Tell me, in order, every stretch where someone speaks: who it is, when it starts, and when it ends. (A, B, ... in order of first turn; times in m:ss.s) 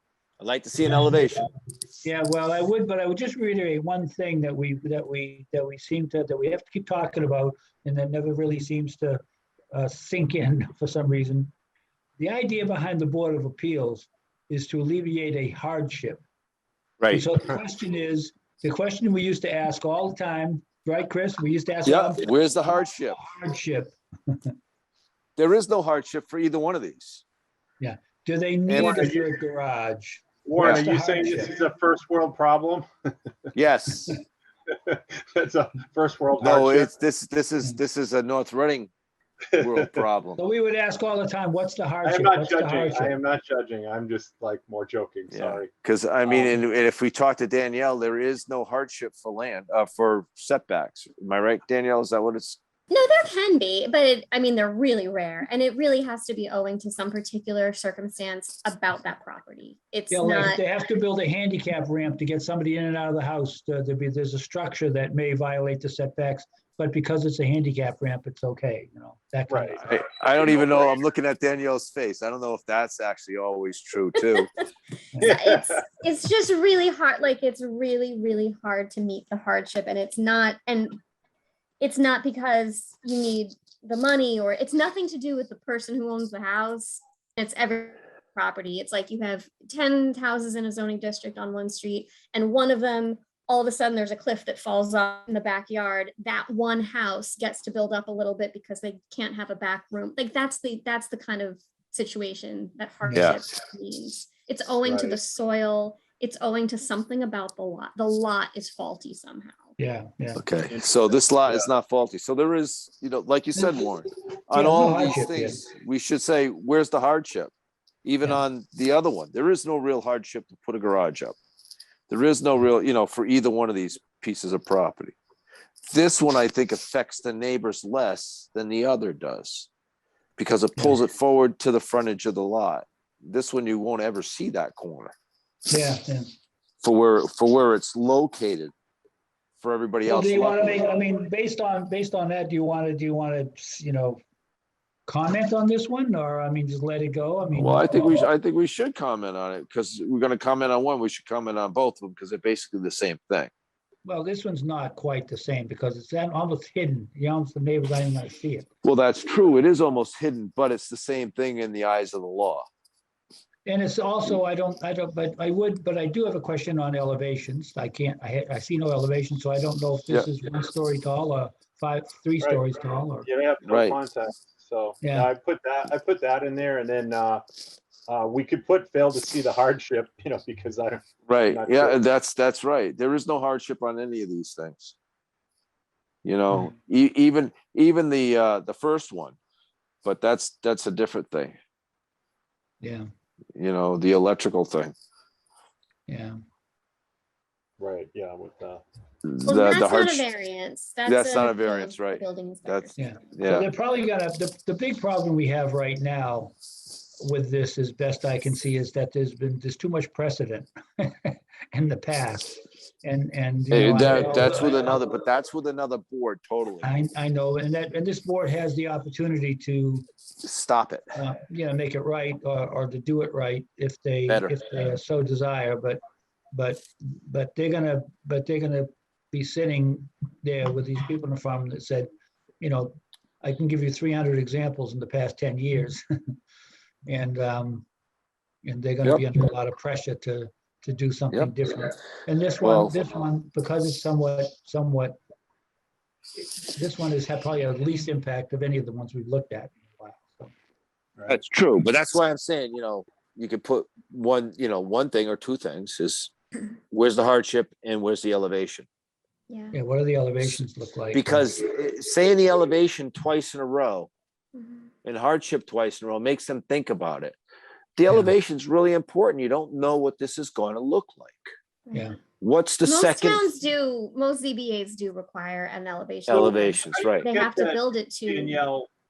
0:00.4-0:01.5 A
0:02.0-0:11.5 B
0:12.2-0:16.2 B
0:17.0-0:17.3 A
0:17.1-0:24.5 B
0:21.8-0:23.2 A
0:25.4-0:27.2 A
0:27.8-0:31.5 B
0:28.7-0:29.1 A
0:28.7-0:29.3 C
0:30.4-0:33.3 C
0:33.5-0:34.2 A
0:34.7-0:36.9 C
0:36.4-0:38.9 A
0:39.5-0:40.0 C
0:39.6-0:40.4 A
0:40.4-0:43.2 B
0:42.0-0:45.7 C
0:45.3-0:52.6 A
0:52.9-1:00.6 D
1:00.1-1:09.9 B
1:09.5-1:09.8 C
1:09.8-1:14.5 A
1:10.4-1:10.8 C
1:15.2-1:21.0 D
1:15.2-1:15.8 C
1:21.8-1:49.7 D
1:43.0-1:43.4 B
1:43.1-1:43.4 A
1:44.8-1:45.2 C
1:49.8-1:50.4 B
1:50.4-1:57.5 A
1:50.6-1:51.7 C
1:54.5-1:55.6 B
1:58.0-2:01.4 A
2:02.1-2:05.2 A
2:05.8-2:09.7 A
2:10.4-2:15.1 A
2:15.7-2:16.3 B
2:16.8-2:18.7 A
2:19.6-2:20.8 A
2:20.0-2:24.2 B
2:25.1-2:28.2 B
2:27.5-2:33.5 A
2:34.0-2:38.7 B
2:38.8-2:42.7 A
2:43.6-2:53.3 B
2:53.2-2:57.4 C
2:53.6-2:54.0 A
2:55.0-2:55.3 B
2:58.1-3:02.0 C
3:01.3-3:04.9 A
3:06.2-3:09.4 A
3:10.0-3:11.6 A
3:12.8-3:13.0 B
3:13.5-3:14.9 A
3:16.1-3:16.4 B
3:17.8-3:18.8 C
3:19.2-3:20.3 A
3:19.4-3:23.3 D
3:21.0-3:23.7 A
3:23.0-3:26.5 B
3:27.2-3:35.0 B
3:33.7-3:36.9 A
3:36.8-3:40.0 B
3:40.4-3:41.2 A
3:41.1-3:46.0 B
3:44.3-3:44.6 A
3:46.5-3:56.3 B
3:57.0-3:57.8 B
3:58.6-4:05.2 B
4:02.6-4:03.0 A
4:06.4-4:10.5 B
4:11.3-4:16.3 A
4:16.9-4:18.8 A
4:19.5-4:19.8 D
4:19.7-4:21.5 B
4:21.1-4:24.1 A
4:24.6-4:24.9 D
4:25.0-4:27.4 A
4:28.0-4:31.5 A
4:31.9-4:32.1 D
4:31.9-4:32.2 B
4:32.4-4:33.5 A
4:32.8-4:38.6 D
4:36.3-4:37.3 A
4:36.3-4:38.9 C